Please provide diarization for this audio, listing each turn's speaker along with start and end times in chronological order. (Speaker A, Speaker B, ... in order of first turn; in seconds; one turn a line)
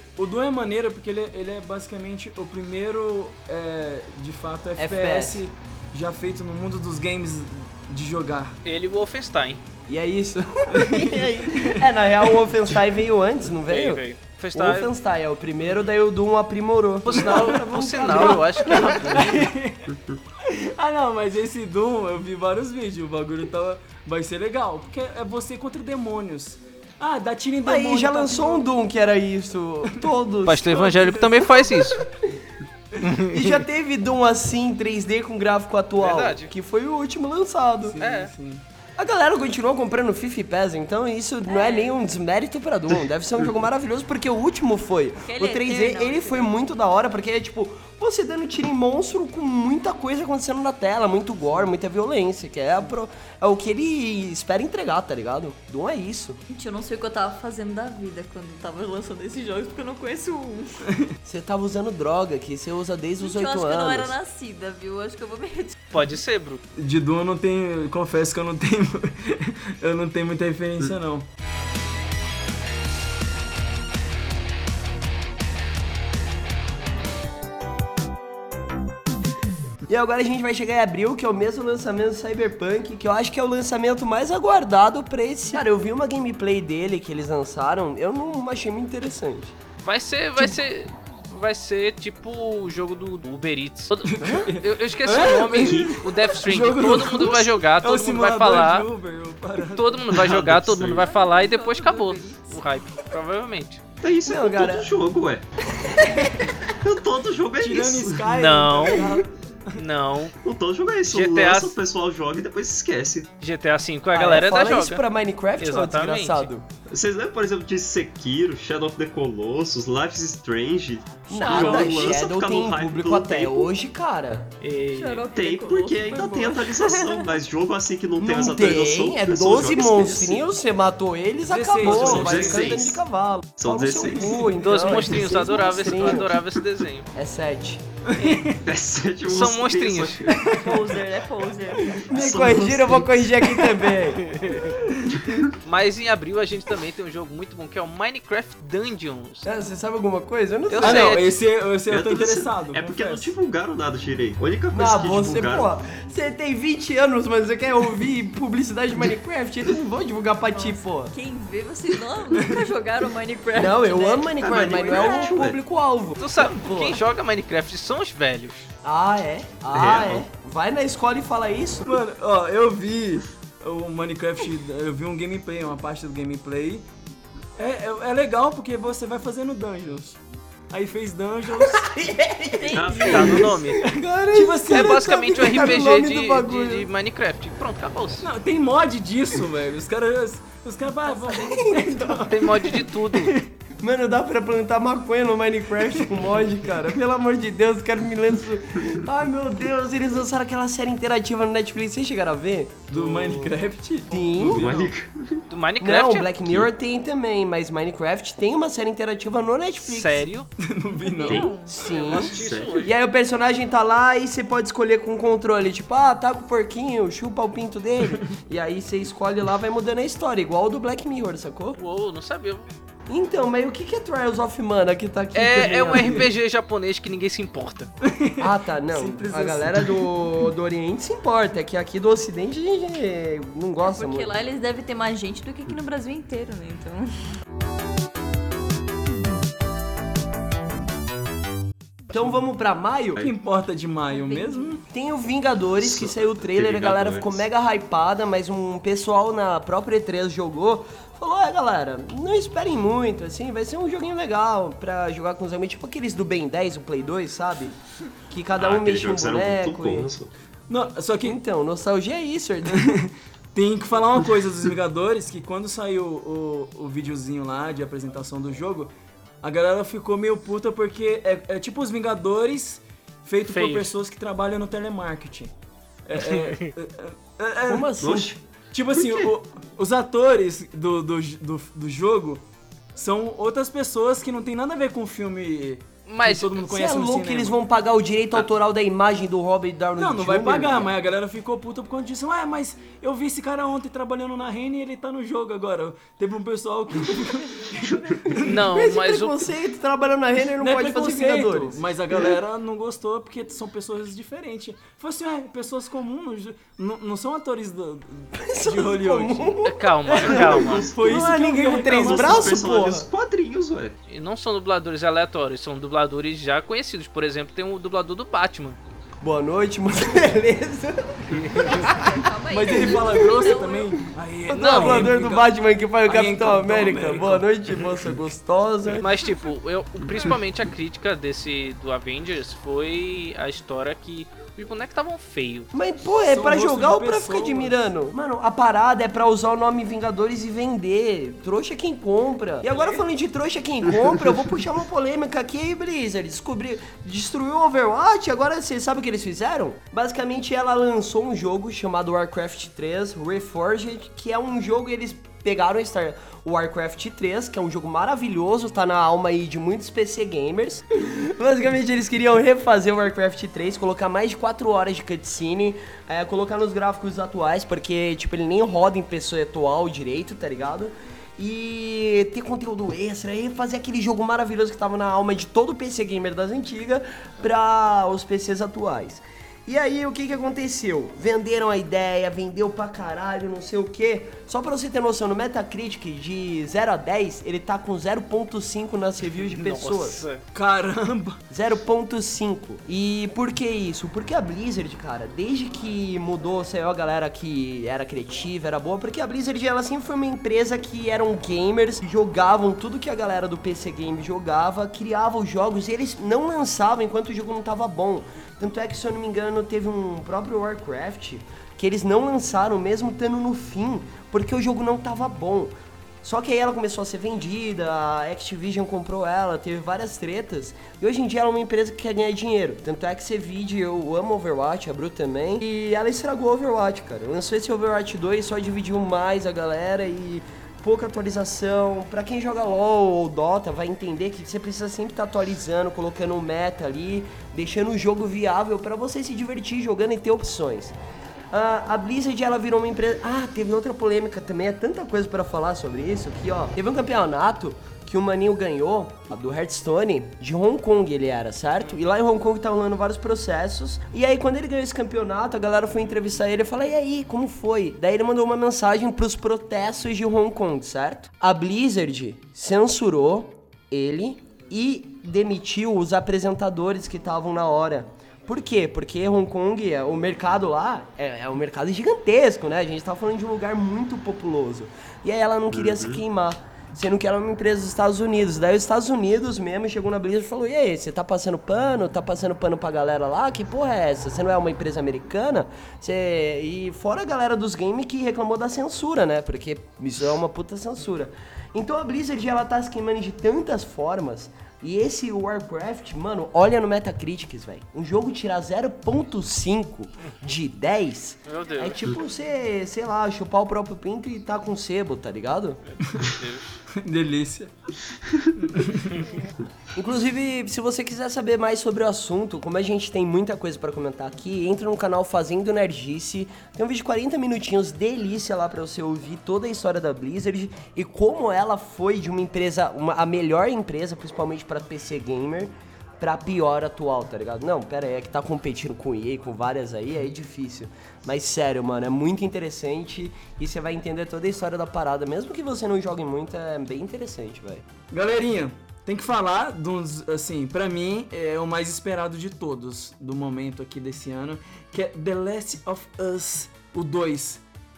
Speaker A: 0.2-8.6
Speaker B: 4.8-5.4
Speaker C: 8.6-9.6
Speaker B: 9.9-14.0
Speaker A: 10.7-11.8
Speaker C: 13.7-14.9
Speaker B: 14.5-19.3
Speaker C: 17.0-19.5
Speaker A: 17.1-28.7
Speaker B: 27.6-32.1
Speaker C: 30.4-32.0
Speaker C: 33.0-33.6
Speaker B: 33.3-38.0
Speaker C: 36.0-36.5
Speaker A: 37.8-38.6
Speaker C: 38.0-38.3
Speaker B: 39.0-56.4
Speaker D: 41.5-41.9
Speaker D: 45.3-46.5
Speaker D: 56.5-60.8
Speaker A: 60.9-61.1
Speaker B: 61.2-64.2
Speaker D: 63.2-65.8
Speaker C: 65.9-66.6
Speaker A: 66.8-71.3
Speaker B: 79.9-89.5
Speaker C: 89.8-98.9
Speaker A: 94.0-100.2
Speaker E: 95.6-95.9
Speaker C: 99.7-103.8
Speaker E: 100.2-101.0
Speaker D: 100.9-102.7
Speaker E: 104.0-105.5
Speaker B: 104.2-104.9
Speaker B: 105.8-106.6
Speaker E: 106.6-108.2
Speaker A: 107.6-109.8
Speaker C: 108.3-109.1
Speaker C: 109.8-110.3
Speaker E: 110.4-113.3
Speaker C: 111.0-111.8
Speaker C: 113.4-115.0
Speaker B: 114.1-116.7
Speaker C: 115.6-116.5
Speaker E: 116.9-123.7
Speaker B: 121.3-124.5
Speaker A: 121.5-122.0
Speaker C: 124.6-125.2
Speaker D: 124.9-127.3
Speaker E: 125.3-130.4
Speaker B: 128.2-136.4
Speaker A: 131.5-132.8
Speaker E: 131.8-133.0
Speaker E: 133.6-134.5
Speaker C: 134.6-137.1
Speaker B: 137.1-137.8
Speaker A: 138.0-138.6
Speaker E: 138.6-140.9
Speaker C: 139.3-140.3
Speaker A: 140.3-140.8
Speaker D: 140.4-142.1
Speaker B: 142.0-144.2
Speaker E: 142.1-143.1
Speaker C: 144.2-144.8
Speaker A: 144.7-145.4
Speaker E: 145.2-145.5
Speaker C: 145.6-149.4
Speaker B: 149.4-151.2
Speaker C: 150.7-151.3
Speaker A: 150.8-153.3
Speaker E: 151.9-155.7
Speaker B: 154.7-161.2
Speaker D: 160.5-165.4
Speaker A: 162.3-162.7
Speaker B: 163.5-167.0
Speaker E: 164.4-165.6
Speaker C: 166.2-168.7
Speaker B: 168.8-172.0
Speaker E: 169.7-170.2
Speaker A: 171.8-176.8
Speaker A: 177.6-181.9
Speaker B: 181.5-186.9
Speaker D: 182.6-183.4
Speaker E: 182.7-183.5
Speaker C: 182.9-183.8
Speaker A: 184.3-185.1
Speaker C: 184.7-188.3
Speaker A: 188.2-193.5
Speaker B: 191.3-192.5
Speaker C: 192.3-193.3
Speaker B: 193.8-202.9
Speaker A: 195.9-196.2
Speaker A: 202.9-204.9
Speaker C: 203.0-203.5
Speaker B: 204.1-204.8
Speaker E: 204.4-205.4
Speaker C: 205.5-206.3
Speaker B: 205.8-210.3
Speaker C: 209.8-210.5
Speaker A: 210.6-211.6
Speaker D: 211.0-211.9
Speaker E: 211.2-211.6
Speaker B: 211.7-221.8
Speaker C: 211.8-212.9
Speaker E: 212.1-212.7
Speaker C: 221.8-222.7
Speaker B: 223.1-226.2
Speaker C: 225.3-227.9
Speaker A: 228.0-230.1
Speaker B: 228.4-234.3
Speaker D: 233.8-237.1
Speaker B: 242.1-243.2
Speaker A: 243.2-244.8
Speaker D: 244.1-244.8
Speaker B: 244.9-257.8
Speaker E: 245.8-247.4
Speaker B: 258.3-260.1
Speaker E: 258.5-260.3
Speaker A: 260.7-261.4
Speaker B: 261.2-263.0
Speaker A: 262.7-268.9
Speaker A: 269.4-275.5
Speaker C: 273.5-273.9
Speaker A: 276.1-277.9
Speaker C: 276.3-276.6
Speaker B: 277.7-278.3
Speaker E: 278.0-278.4
Speaker A: 278.7-282.4
Speaker E: 278.9-279.3
Speaker A: 282.9-287.6
Speaker C: 286.1-286.6
Speaker B: 286.6-290.9
Speaker A: 290.0-298.6
Speaker B: 298.3-301.8
Speaker C: 298.4-299.5
Speaker A: 300.6-309.6
Speaker B: 308.3-313.1
Speaker C: 309.6-310.9
Speaker A: 310.1-312.7
Speaker E: 310.1-313.9
Speaker C: 314.1-318.8
Speaker B: 319.2-322.0
Speaker C: 321.3-321.9
Speaker D: 321.6-324.0
Speaker A: 322.5-325.5
Speaker B: 322.7-323.3
Speaker B: 324.5-329.1
Speaker C: 324.5-325.1
Speaker A: 326.0-327.5
Speaker C: 329.0-335.7
Speaker B: 335.7-390.2
Speaker A: 336.3-337.8
Speaker C: 389.4-390.4
Speaker A: 390.5-391.4
Speaker B: 391.5-440.9
Speaker B: 441.5-505.8
Speaker E: 475.7-476.2
Speaker C: 501.5-502.0
Speaker A: 506.0-506.3
Speaker C: 506.1-506.6
Speaker A: 506.9-507.7
Speaker A: 508.6-509.3
Speaker B: 509.9-537.8
Speaker A: 538.1-547.6